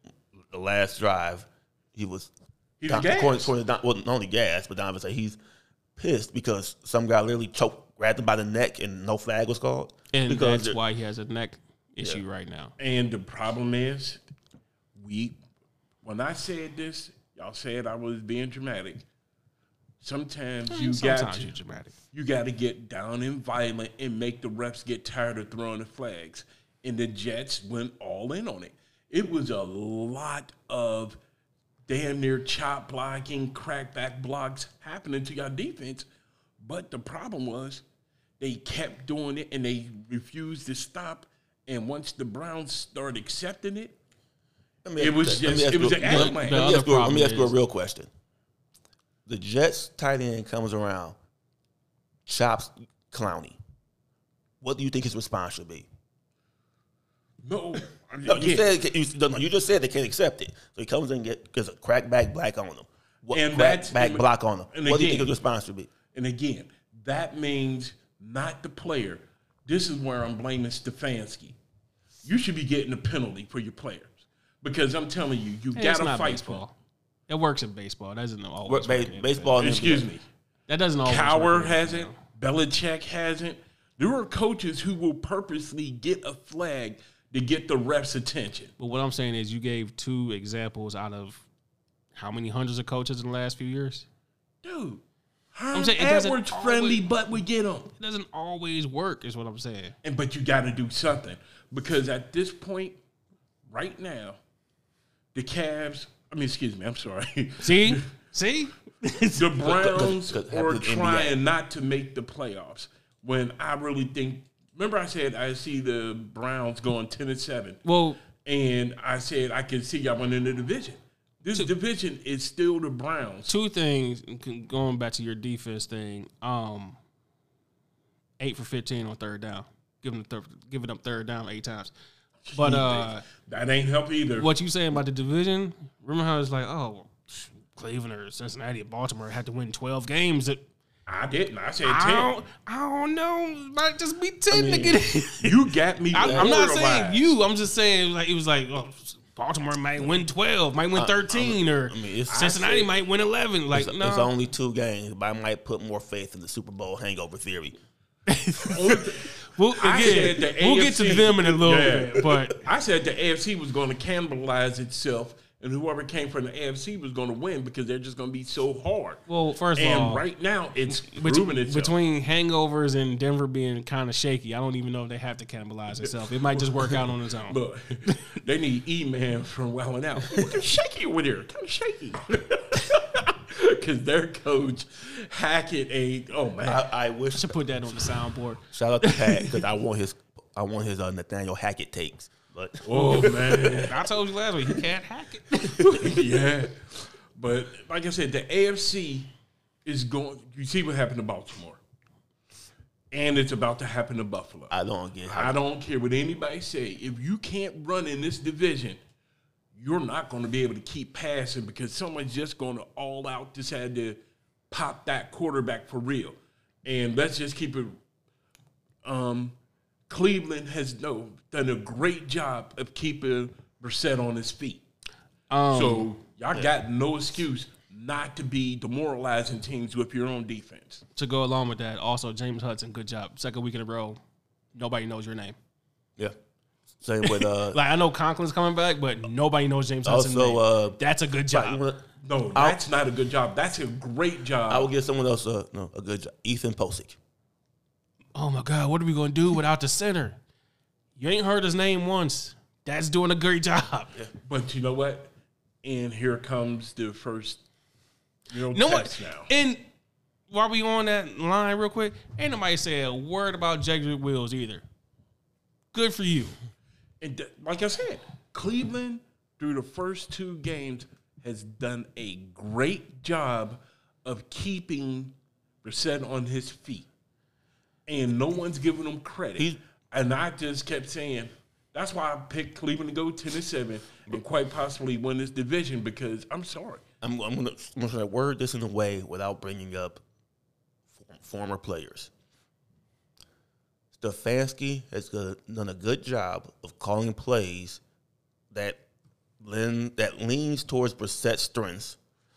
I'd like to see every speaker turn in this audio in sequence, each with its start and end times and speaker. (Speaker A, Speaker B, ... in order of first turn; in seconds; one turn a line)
Speaker A: 0.5-2.3
Speaker B: 2.8-3.5
Speaker A: 2.9-5.4
Speaker A: 6.0-10.8
Speaker C: 10.1-12.7
Speaker B: 12.8-14.2
Speaker B: 15.0-15.4
Speaker B: 16.0-19.1
Speaker B: 20.0-21.5
Speaker C: 20.7-21.9
Speaker B: 22.1-31.2
Speaker B: 31.9-36.1
Speaker B: 36.6-37.8
Speaker B: 38.4-44.0
Speaker A: 44.8-48.1
Speaker B: 45.0-46.8
Speaker C: 46.0-47.5
Speaker A: 49.3-51.2
Speaker A: 52.3-53.6
Speaker A: 54.6-55.9
Speaker B: 57.4-58.7
Speaker A: 58.2-65.9
Speaker B: 63.3-65.3
Speaker B: 66.1-71.6
Speaker B: 72.2-76.6
Speaker C: 75.8-76.7
Speaker C: 77.3-79.6
Speaker A: 78.7-80.1
Speaker B: 79.6-80.2
Speaker C: 80.7-82.2
Speaker B: 81.0-88.7
Speaker C: 88.8-91.4
Speaker C: 92.1-94.1
Speaker B: 94.6-95.0
Speaker B: 95.5-97.9
Speaker C: 95.7-97.0
Speaker C: 97.9-100.0
Speaker B: 100.0-103.0
Speaker B: 103.7-104.4
Speaker B: 105.3-108.0
Speaker C: 107.6-109.5
Speaker B: 109.3-117.8
Speaker A: 109.6-111.4
Speaker C: 117.8-118.2
Speaker B: 118.4-123.5
Speaker C: 123.5-127.0
Speaker C: 128.4-131.9
Speaker B: 132.4-134.5
Speaker C: 132.5-133.2
Speaker C: 134.4-140.6
Speaker B: 141.1-142.3
Speaker C: 141.8-145.6
Speaker A: 144.5-145.0
Speaker B: 145.4-147.4
Speaker C: 146.1-154.3
Speaker A: 146.2-146.6
Speaker A: 150.9-152.7
Speaker B: 152.3-152.9
Speaker A: 153.7-157.8
Speaker C: 158.3-162.6
Speaker B: 158.6-169.2
Speaker C: 169.3-170.2
Speaker B: 169.8-171.9
Speaker C: 170.9-177.6
Speaker B: 176.0-186.9
Speaker A: 186.7-187.6
Speaker C: 187.3-189.6
Speaker A: 188.7-193.9
Speaker B: 192.9-194.0
Speaker C: 193.8-196.1
Speaker B: 195.8-199.3
Speaker B: 199.8-201.8
Speaker B: 203.1-204.7
Speaker A: 204.7-205.6
Speaker B: 205.3-209.0
Speaker B: 209.8-214.2
Speaker B: 214.7-218.0
Speaker B: 219.0-219.6
Speaker B: 220.1-224.8
Speaker C: 225.5-226.1
Speaker B: 225.7-231.0
Speaker C: 231.2-234.2
Speaker C: 234.8-235.6
Speaker A: 237.0-237.8
Speaker C: 237.2-241.8
Speaker A: 240.1-242.8
Speaker B: 242.2-244.9
Speaker A: 244.7-247.2
Speaker C: 248.3-250.4
Speaker C: 251.2-254.1
Speaker B: 254.5-255.3
Speaker B: 255.8-257.6
Speaker B: 258.5-259.5
Speaker C: 258.7-259.8
Speaker C: 260.5-264.8
Speaker C: 265.9-266.6
Speaker B: 267.2-277.1
Speaker B: 278.1-287.0
Speaker A: 287.2-290.2
Speaker A: 291.1-292.3
Speaker A: 294.1-298.0
Speaker A: 298.7-299.0
Speaker A: 299.6-302.2